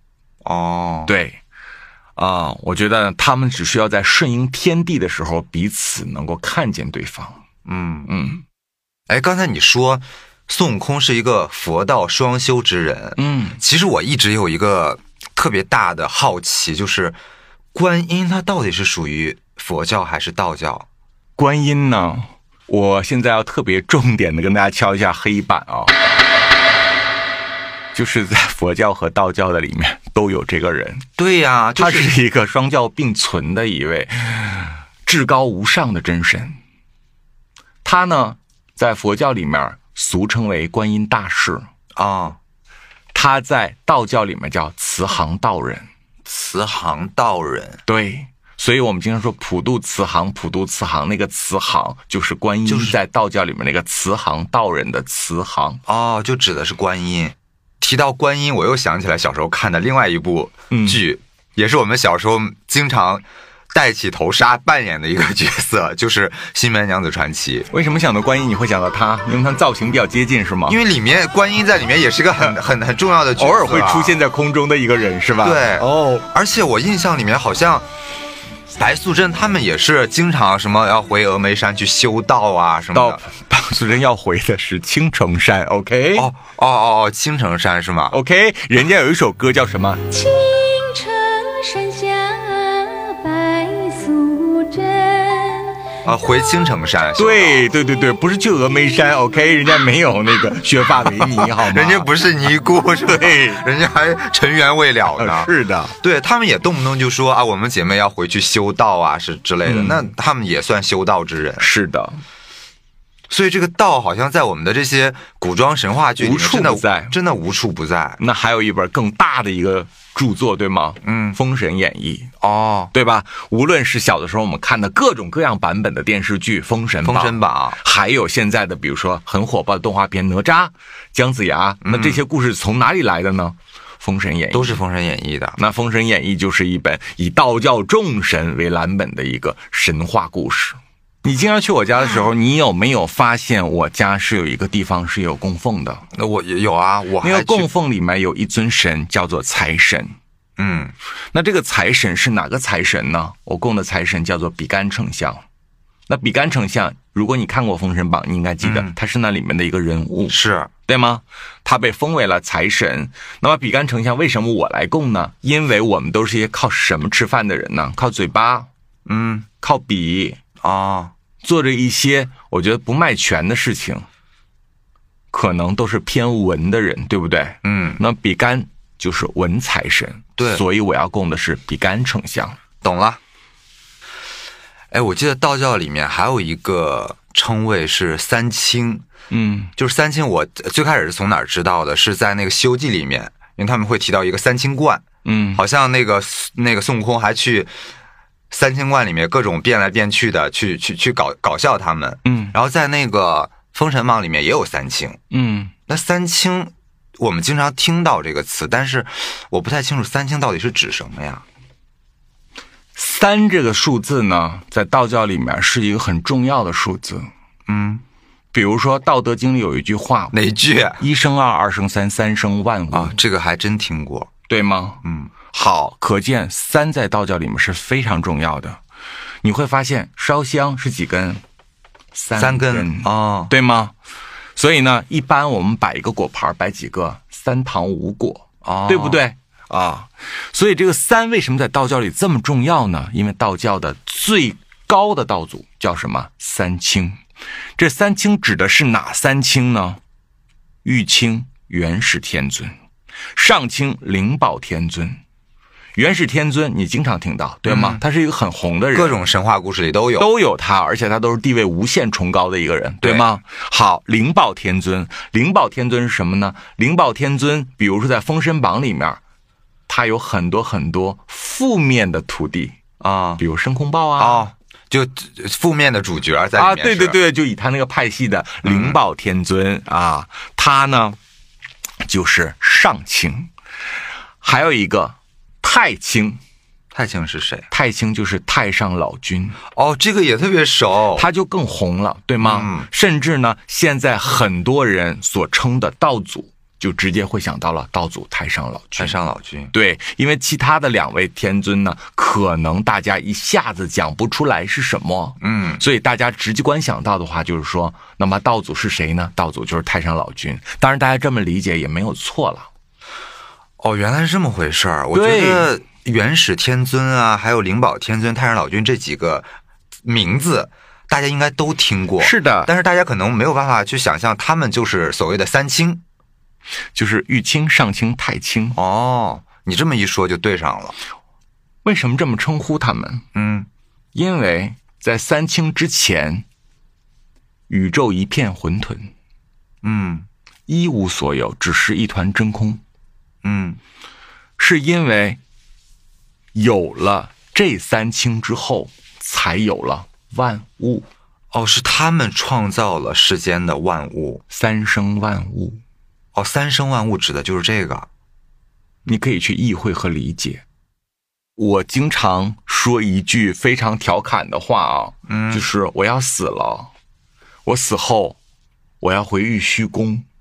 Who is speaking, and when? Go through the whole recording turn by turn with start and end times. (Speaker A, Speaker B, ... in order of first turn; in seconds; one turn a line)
Speaker A: 0.4-1.1
Speaker B: 1.1-1.4
Speaker B: 2.2-7.4
Speaker A: 7.7-8.1
Speaker B: 8.1-8.4
Speaker A: 9.1-17.2
Speaker B: 13.2-13.6
Speaker A: 17.7-20.9
Speaker B: 21.4-25.9
Speaker B: 27.9-31.0
Speaker A: 31.2-32.2
Speaker B: 31.8-36.6
Speaker B: 37.8-41.6
Speaker A: 42.0-42.4
Speaker B: 43.1-45.9
Speaker A: 46.2-47.8
Speaker B: 47.9-55.8
Speaker A: 52.7-53.0
Speaker A: 55.9-67.7
Speaker B: 60.7-61.0
Speaker B: 67.7-70.8
Speaker A: 70.7-74.2
Speaker B: 73.4-76.2
Speaker A: 75.4-77.8
Speaker A: 78.7-83.2
Speaker B: 82.9-86.3
Speaker A: 86.2-88.2
Speaker B: 88.1-90.1
Speaker C: 90.1-95.8
Speaker A: 96.0-97.6
Speaker B: 97.2-102.1
Speaker A: 101.2-111.7
Speaker B: 103.0-103.6
Speaker B: 105.2-105.9
Speaker B: 109.6-110.1
Speaker B: 111.6-112.2
Speaker A: 113.3-118.2
Speaker B: 116.2-117.1
Speaker B: 118.2-122.3
Speaker A: 121.0-121.4
Speaker A: 122.4-122.9
Speaker B: 122.9-134.8
Speaker A: 127.0-127.8
Speaker A: 131.8-132.2
Speaker A: 134.5-135.6
Speaker B: 135.6-146.0
Speaker A: 146.1-147.7
Speaker B: 147.2-150.2
Speaker A: 150.6-150.9
Speaker B: 151.3-155.4
Speaker B: 156.1-168.7
Speaker A: 158.6-158.9
Speaker A: 160.3-160.7
Speaker A: 169.1-169.5
Speaker B: 169.6-170.4
Speaker A: 170.6-171.1
Speaker B: 171.4-174.1
Speaker B: 175.3-182.6
Speaker A: 177.6-178.0
Speaker A: 180.4-180.6
Speaker A: 182.8-183.2
Speaker A: 184.9-189.1
Speaker B: 189.3-189.7
Speaker A: 189.8-197.7
Speaker B: 195.2-195.6
Speaker A: 198.5-205.2
Speaker B: 202.2-202.5
Speaker B: 205.3-205.7
Speaker A: 205.9-211.4
Speaker B: 212.9-217.3
Speaker A: 217.7-218.0
Speaker B: 218.5-220.4
Speaker A: 220.3-221.0
Speaker B: 221.0-223.2
Speaker A: 222.9-224.3
Speaker B: 224.5-228.8
Speaker A: 225.0-225.3
Speaker B: 229.4-231.4
Speaker B: 232.1-233.9
Speaker A: 232.3-233.5
Speaker B: 234.6-247.2
Speaker A: 238.6-239.2
Speaker B: 247.8-250.0
Speaker B: 250.8-252.7
Speaker B: 253.3-255.2
Speaker B: 255.9-259.2
Speaker A: 257.6-258.0
Speaker A: 258.9-260.3
Speaker B: 260.2-269.2
Speaker B: 269.9-272.8
Speaker A: 273.0-273.4
Speaker B: 273.4-274.4
Speaker A: 274.2-277.2
Speaker B: 276.6-281.2
Speaker A: 278.6-279.0
Speaker B: 282.0-283.5
Speaker B: 284.4-286.4
Speaker A: 286.9-287.7
Speaker B: 287.7-289.6
Speaker A: 289.7-291.2
Speaker B: 291.1-299.1
Speaker A: 292.4-292.9
Speaker A: 299.0-299.7
Speaker B: 299.7-312.7
Speaker A: 305.4-305.8
Speaker A: 313.8-319.5
Speaker B: 315.1-315.7
Speaker A: 320.0-326.0
Speaker B: 322.2-322.7
Speaker B: 326.9-328.8
Speaker A: 328.7-330.9
Speaker B: 331.8-333.2
Speaker A: 333.3-333.7
Speaker B: 334.1-336.4
Speaker B: 337.7-339.1
Speaker A: 339.8-340.3
Speaker B: 340.7-342.8
Speaker A: 343.4-343.8
Speaker B: 344.6-345.4
Speaker B: 346.5-351.1
Speaker A: 351.5-354.4
Speaker B: 354.5-355.8
Speaker A: 356.3-358.1
Speaker B: 359.1-360.6
Speaker B: 361.6-366.9
Speaker A: 365.3-365.6
Speaker B: 367.6-368.4
Speaker B: 369.0-370.2